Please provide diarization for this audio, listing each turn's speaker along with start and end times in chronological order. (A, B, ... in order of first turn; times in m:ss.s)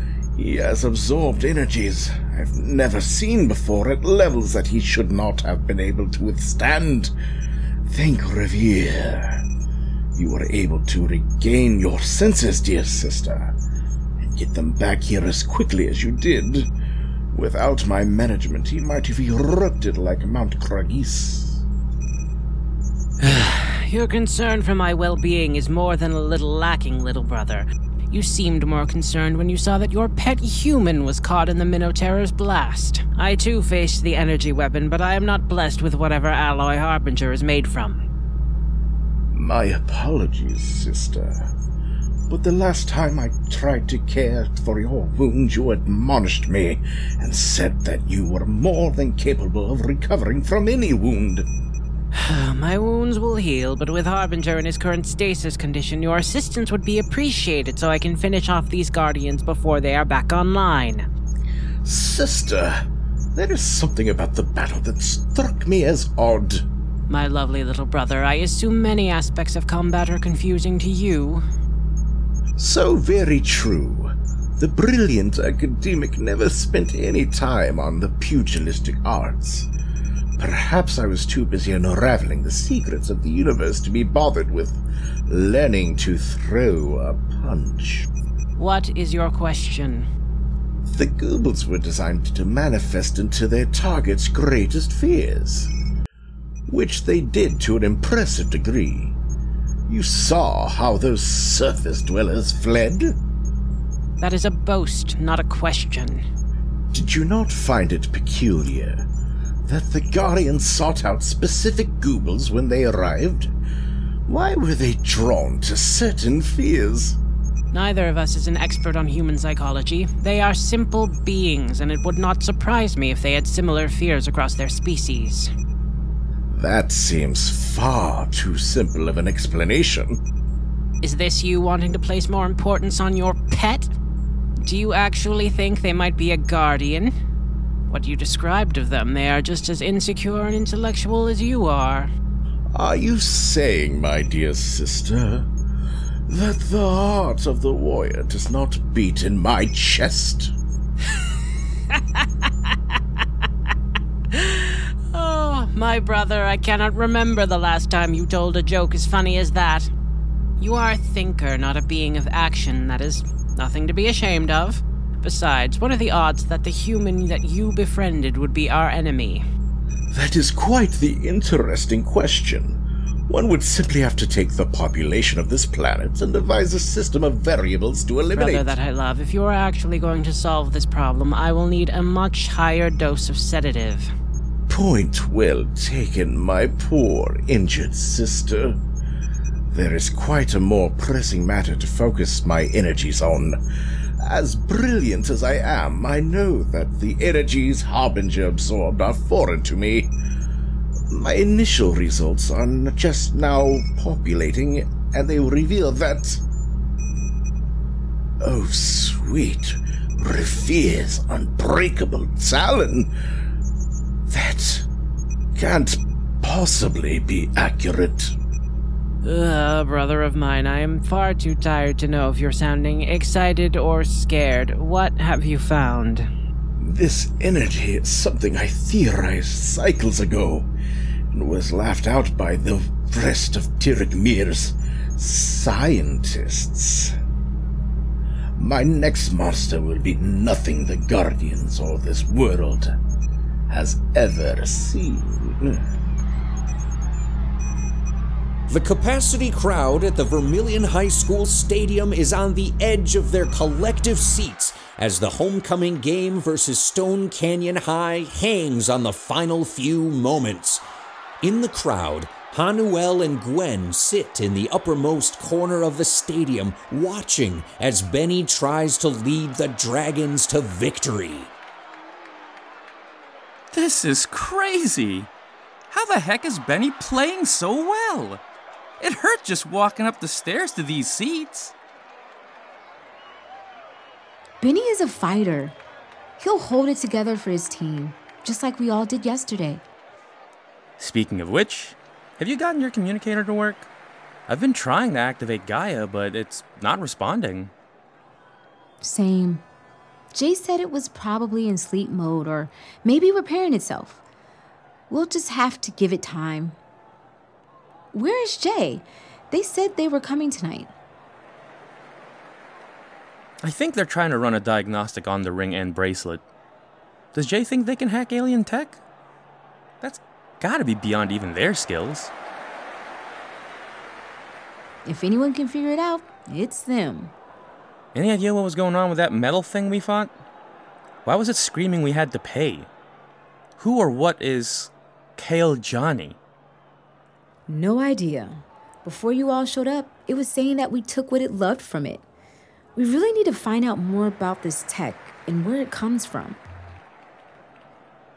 0:00.3-0:07.1 A
0:07.9-0:09.4 A
0:10.1-0:13.5 A
0:14.2-0:16.7 A
0:17.3-0:21.6 A
0:23.2-0:38.0 B
0:39.3-0:41.5 A
0:42.3-0:51.4 A
0:52.1-1:01.1 B
1:01.8-1:02.8 A
1:03.3-1:06.6 A
1:07.1-1:11.4 B
1:12.6-1:19.7 A
1:20.4-1:28.1 A
1:28.6-1:30.1 B
1:30.9-1:35.7 A
1:36.7-1:39.2 A
1:39.9-1:43.1 A
1:44.2-1:46.2 B
1:46.9-1:49.0 A
1:49.7-1:53.5 A
1:54.3-1:57.2 A
1:57.7-2:05.5 B
2:06.5-2:10.2 A
2:11.0-2:13.9 B
2:14.6-2:17.1 B
2:17.9-2:22.1 B
2:22.8-2:25.5 A
2:26.3-2:30.5 A
2:31.9-2:32.7 B
2:34.3-2:39.9 B
2:40.6-2:49.4 B
2:50.1-2:58.7 A
2:58.3-3:04.1 B
3:04.7-3:08.8 A
3:09.7-3:13.6 A
3:14.2-3:20.1 A
3:21.1-3:26.4 A
3:28.4-3:33.1 A
3:34.3-3:34.8 A
3:35.5-3:38.3 A
3:39.2-3:46.3 B
3:46.8-3:50.7 A
3:51.3-3:57.1 A
3:58.6-4:02.9 A
4:03.7-4:05.8 A
4:08.7-4:20.8 C
4:21.4-4:31.5 C
4:33.7-4:35.3 D
4:35.9-4:38.4 D
4:39.0-4:41.7 D
4:44.6-4:45.8 E
4:46.4-4:49.8 E
4:51.0-4:53.9 D
4:54.5-4:57.7 D
4:59.0-4:59.6 E
5:00.3-5:04.2 E
5:05.1-5:06.8 E
5:08.1-5:10.9 E
5:13.6-5:16.4 D
5:17.3-5:19.0 D
5:20.0-5:22.3 D
5:25.0-5:27.3 E
5:28.1-5:30.3 D
5:31.2-5:32.9 D
5:33.8-5:36.4 D
5:37.7-5:42.2 E
5:43.0-5:46.6 E